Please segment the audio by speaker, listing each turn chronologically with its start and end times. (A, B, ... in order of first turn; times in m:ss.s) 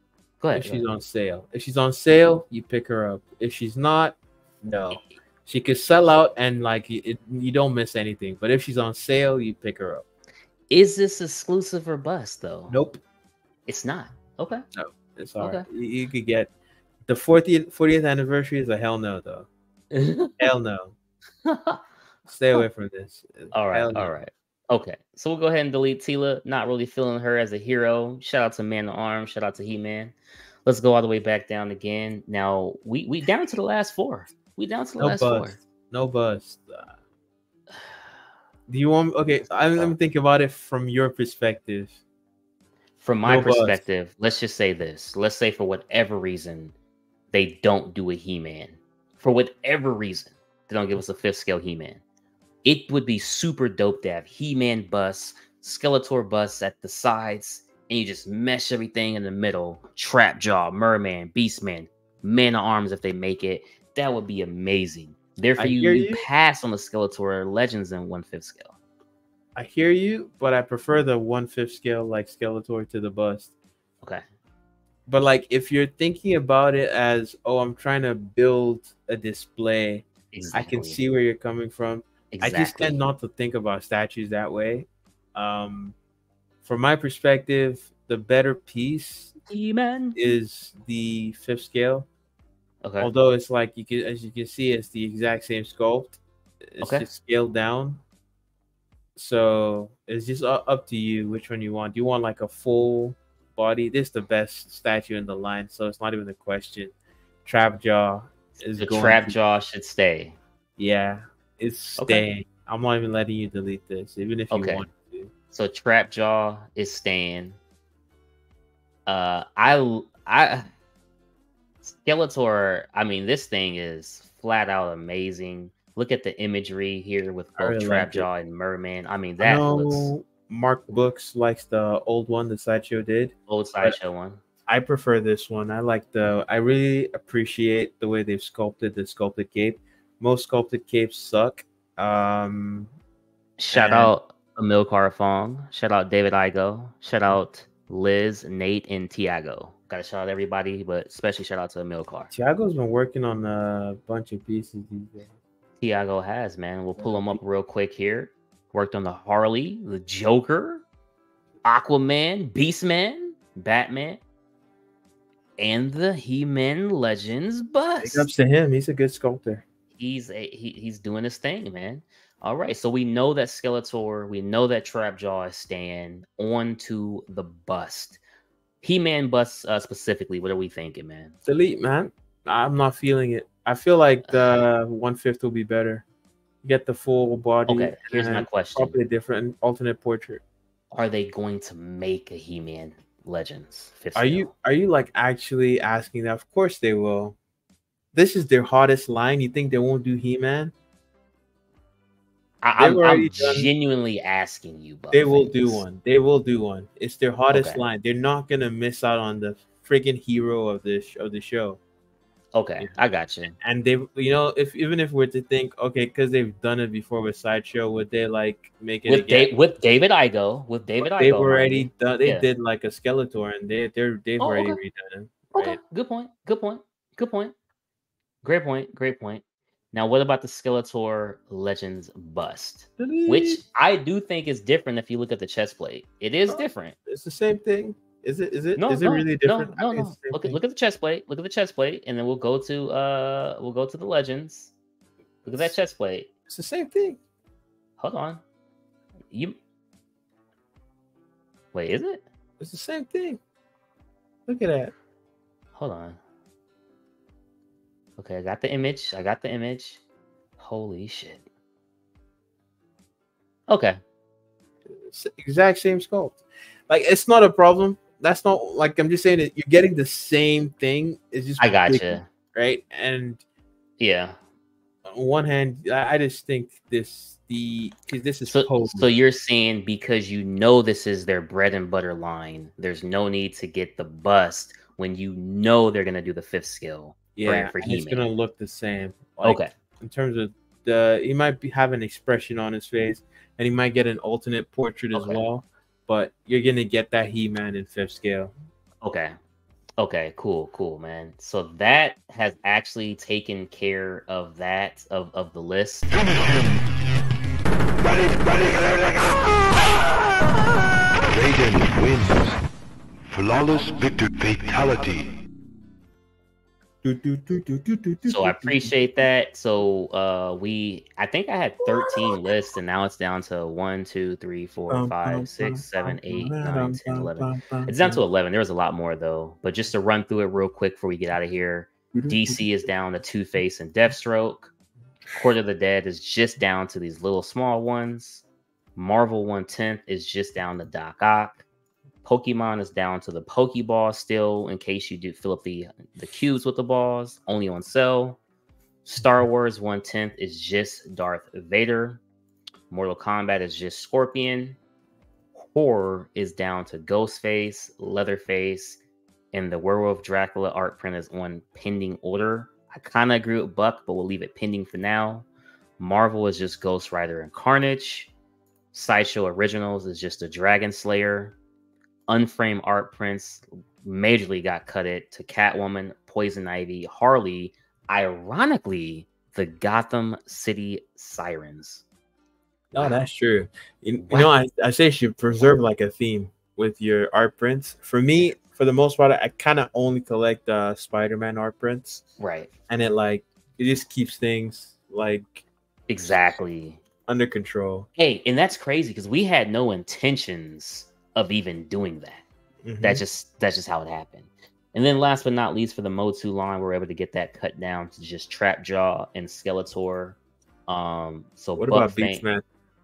0:00.4-0:00.9 A
0:00.5-0:10.0 B
0:10.7-0:12.8 A
0:12.7-0:13.0 B
0:13.7-0:14.6 A
0:14.8-0:16.5 B
0:15.4-0:15.7 A
0:17.1-0:19.5 B
0:19.9-0:20.5 A
0:20.4-0:21.0 B
0:21.4-0:21.8 A
0:22.3-0:24.2 B
0:23.5-0:35.6 A
0:35.0-0:37.0 B
0:38.7-0:42.0 B
0:43.0-0:46.7 A
0:43.2-0:43.8 B
0:47.3-0:52.0 A
0:52.6-1:08.8 A
1:05.6-1:06.3 B
1:09.6-1:13.5 B
1:15.1-1:26.0 B
1:20.3-1:21.0 A
1:22.3-1:23.0 A
1:26.6-1:29.4 B
1:29.5-1:30.2 A
1:30.2-1:32.1 B
1:32.8-1:33.1 A
1:33.0-1:36.2 B
1:36.8-1:38.0 B
1:36.8-1:37.1 A
1:39.2-1:46.9 B
1:47.4-1:49.4 B
1:48.8-1:50.4 A
1:50.8-1:55.3 B
1:52.0-1:52.2 A
1:54.5-1:54.9 A
1:55.5-1:57.6 A
1:59.1-2:00.7 A
2:01.8-2:10.1 A
2:07.6-2:08.3 B
2:09.4-2:14.0 B
2:13.5-2:14.4 A
2:14.7-2:22.9 B
2:23.6-2:32.3 A
2:23.7-2:24.1 B
2:32.3-2:35.3 B
2:35.8-2:40.8 A
2:37.0-2:37.4 B
2:41.6-2:44.2 A
2:45.6-2:48.3 A
2:48.0-2:49.6 B
2:50.0-2:58.2 A
2:58.8-3:01.3 A
3:01.4-3:06.0 B
3:04.3-3:04.6 A
3:06.6-3:10.4 B
3:07.7-3:09.0 A
3:10.9-3:14.5 A
3:14.2-3:17.4 B
3:18.1-3:20.7 B
3:22.6-3:25.8 A
3:22.8-3:23.7 B
3:25.1-3:31.8 B
3:27.5-3:27.8 A
3:32.5-3:33.6 A
3:33.6-3:39.5 B
3:39.1-3:42.5 A
3:41.0-3:45.8 B
3:44.4-3:44.8 A
3:45.5-3:47.5 A
3:48.4-3:49.4 A
3:49.9-3:57.0 A
3:53.0-3:53.6 B
3:56.5-4:00.6 B
3:58.8-4:04.7 A
4:05.4-4:06.3 A
4:06.5-4:07.2 B
4:08.0-4:08.4 A
4:09.3-4:09.6 A
4:11.7-4:12.2 A
4:12.6-4:13.4 B
4:14.5-4:14.9 B
4:15.8-4:16.2 A
4:18.2-4:20.0 A
4:20.6-4:21.4 A
4:23.7-4:24.0 A
4:24.9-4:33.4 B
4:31.6-4:32.3 A
4:34.0-4:34.4 A
4:35.0-4:39.1 B
4:38.5-4:48.3 A
4:47.4-4:58.5 B
4:49.4-4:49.7 A
4:55.1-4:55.4 A
4:59.0-4:59.3 A
5:00.0-5:06.1 A
5:11.3-5:12.6 C
5:13.3-5:15.3 C
5:17.0-5:18.9 B
5:18.3-5:34.7 A
5:21.9-5:22.4 B
5:24.9-5:28.2 B
5:32.2-5:32.6 B
5:35.4-5:38.4 A
5:39.0-5:41.6 A
5:42.2-5:48.4 A
5:49.0-5:52.2 A
5:52.9-5:54.8 A
5:55.6-5:59.0 A
5:59.5-6:05.5 A
6:06.0-6:08.3 A
6:08.9-6:11.6 A
6:12.3-6:22.0 A
6:22.9-6:32.3 B
6:32.4-6:32.7 A
6:32.9-6:35.7 B
6:36.1-6:37.0 A
6:37.3-6:38.1 B
6:38.2-6:42.4 A
6:42.8-6:43.2 B
6:43.0-6:52.4 A
6:51.8-6:52.6 B